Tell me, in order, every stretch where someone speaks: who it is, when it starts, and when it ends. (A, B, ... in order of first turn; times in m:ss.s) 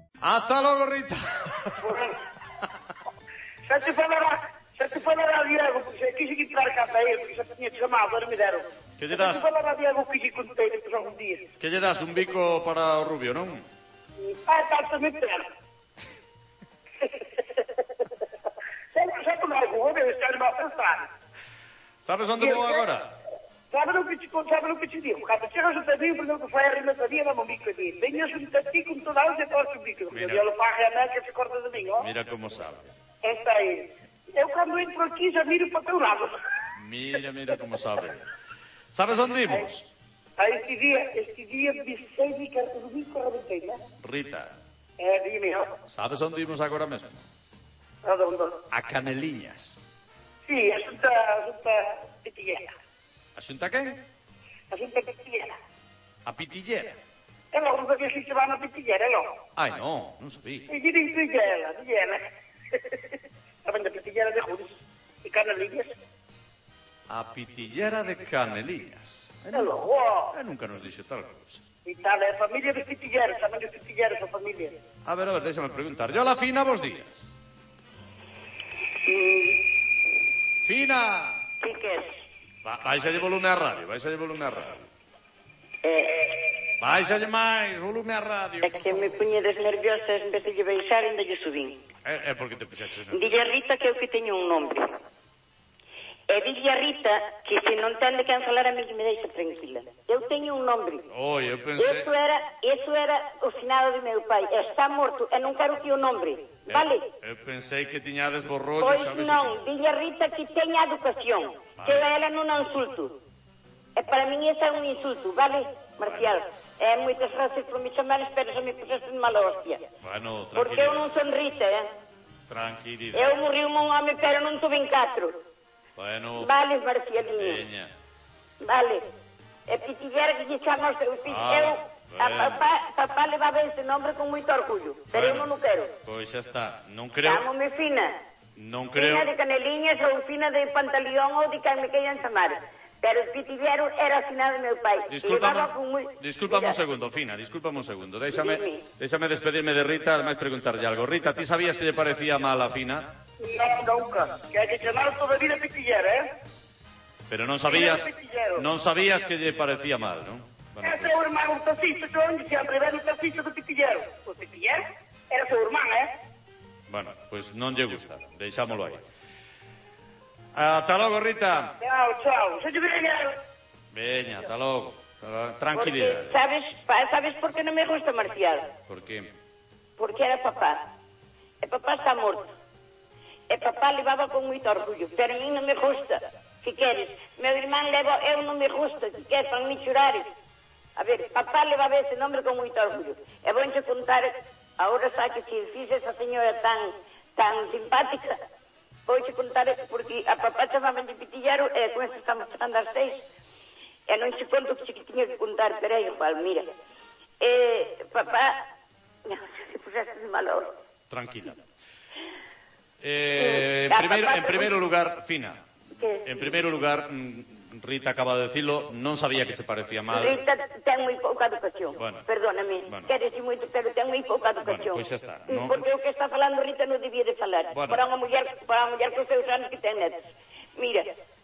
0:00.2-0:01.8 A
0:01.8-0:02.2 B
0:03.7-0:11.5 B
0:09.0-0:09.4 A
0:11.6-0:13.6 A
0:14.2-0:15.4 B
0:18.9-0:21.1 B
0:22.0-0:23.1 A
0:22.4-0:22.8 B
0:23.7-0:32.1 B
0:30.1-0:30.5 A
0:32.0-0:32.9 A
0:33.2-0:36.4 B
0:36.8-0:38.3 A
0:38.9-0:39.9 A
0:40.4-0:43.8 B
0:44.0-0:44.5 A
0:45.0-0:45.7 B
0:45.9-0:47.2 A
0:48.0-0:48.6 B
0:48.7-0:49.8 A
0:50.4-0:52.7 B
0:53.3-0:54.0 A
0:54.7-0:55.6 B
0:56.2-0:57.0 A
0:57.5-0:59.3 B
0:59.6-1:00.6 A
1:00.7-1:02.2 B
1:02.7-1:03.0 B
1:03.6-1:05.9 B
1:07.1-1:09.7 A
1:09.5-1:10.3 B
1:10.3-1:11.6 A
1:11.8-1:14.8 B
1:15.0-1:17.3 A
1:19.0-1:19.6 C
1:20.6-1:21.4 A
1:21.6-1:22.1 C
1:22.6-1:24.8 A
1:25.8-1:26.5 C
1:26.8-1:29.1 A
1:28.6-1:31.8 C
1:32.0-1:33.3 A
1:33.1-1:34.9 C
1:36.3-1:41.1 C
1:41.1-1:42.1 A
1:41.8-1:47.0 C
1:46.7-1:49.6 A
1:48.8-1:53.2 C
1:51.8-1:52.1 A
1:53.9-1:59.8 C
1:56.0-1:56.3 A
2:00.0-2:01.2 A
2:00.5-2:01.9 C
2:02.5-2:03.4 A
2:03.1-2:05.4 C
2:06.0-2:06.5 A
2:06.3-2:07.6 C
2:07.4-2:07.9 A
2:08.6-2:09.0 C
2:09.7-2:15.9 C
2:11.2-2:12.6 A
2:15.1-2:15.5 A
2:16.0-2:17.4 A
2:17.2-2:18.1 C
2:18.6-2:19.3 A
2:19.0-2:26.8 C
2:25.1-2:33.1 A
2:28.3-2:28.8 C
2:33.4-2:36.3 B
2:37.3-2:41.1 A
2:37.7-2:38.6 B
2:40.8-2:46.1 B
2:46.9-2:49.0 A
2:50.5-2:51.7 A
2:51.8-2:53.4 B
2:53.9-2:56.4 A
2:55.7-2:58.7 C
2:58.9-2:59.3 A
3:00.0-3:00.8 C
3:01.6-3:02.6 C
3:03.5-3:10.3 C
3:11.0-3:18.4 C
3:19.0-3:23.2 C
3:24.1-3:26.7 C
3:27.4-3:28.6 C
3:29.2-3:30.7 C
3:31.1-3:31.6 A
3:33.0-3:35.6 A
3:33.4-3:34.7 C
3:35.9-3:36.6 C
3:36.2-3:40.4 A
3:40.1-3:51.1 C
3:42.0-3:42.2 A
3:42.8-3:43.1 A
3:44.6-3:45.8 A
3:47.7-3:48.0 A